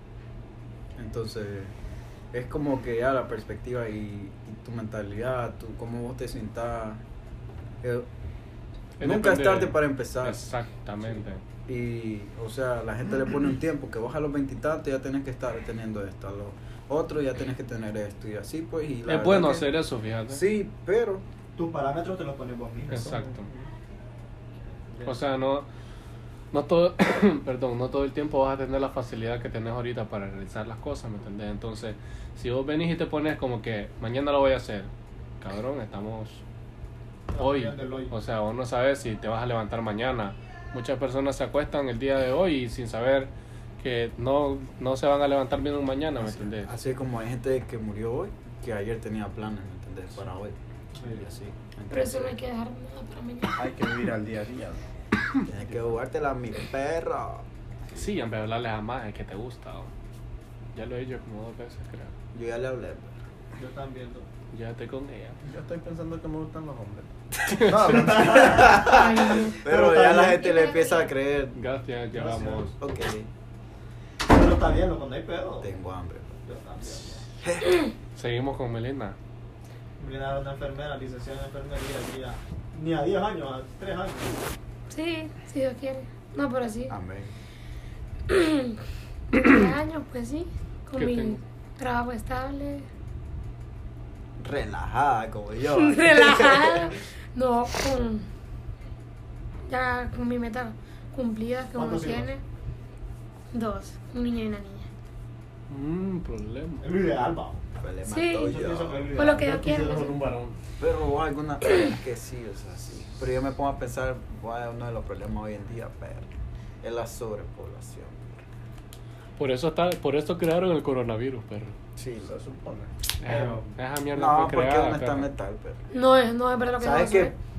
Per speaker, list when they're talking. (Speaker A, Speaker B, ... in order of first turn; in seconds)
Speaker A: 1.0-1.7, 2.3-7.0, 7.8-8.1, 9.0-10.5, 11.7-19.7, 20.3-21.2, 46.2-50.6, 51.1-52.4, 55.5-57.5, 62.3-63.1, 68.5-71.6, 72.8-73.3, 75.6-76.4, 77.4-77.8, 86.9-87.3, 94.4-97.0, 107.8-109.2, 110.8-116.3, 116.8-118.4, 122.0-122.3, 124.1-125.9, 126.8-127.3
Speaker B: 9.0-11.4, 19.1-20.4, 22.9-23.5, 25.1-25.7, 26.5-34.9, 35.4-36.4, 37.4-46.7, 58.0-59.9, 60.8-62.1, 64.5-65.4, 67.5-68.0, 71.5-72.8, 78.2-79.2, 91.0-91.4, 105.7-106.9, 119.4-121.8, 123.2-125.3
Speaker C: 21.6-23.3, 37.3-38.1, 51.0-51.5, 63.6-64.3, 67.9-69.0, 69.5-70.5, 72.1-72.7, 74.3-75.7, 76.5-77.3, 80.0-84.4, 101.8-102.3, 106.8-107.6, 108.4-110.6, 123.2-123.7
Speaker D: 22.9-23.2, 53.6-54.8, 55.5-56.0, 65.4-68.8, 122.2-122.9
Speaker E: 51.9-53.7, 68.8-69.6, 70.4-71.2, 84.9-86.9, 88.3-88.8, 89.3-92.9, 95.7-98.2, 99.7-102.4, 103.5-104.9, 108.0-108.5, 109.2-110.2, 125.9-127.3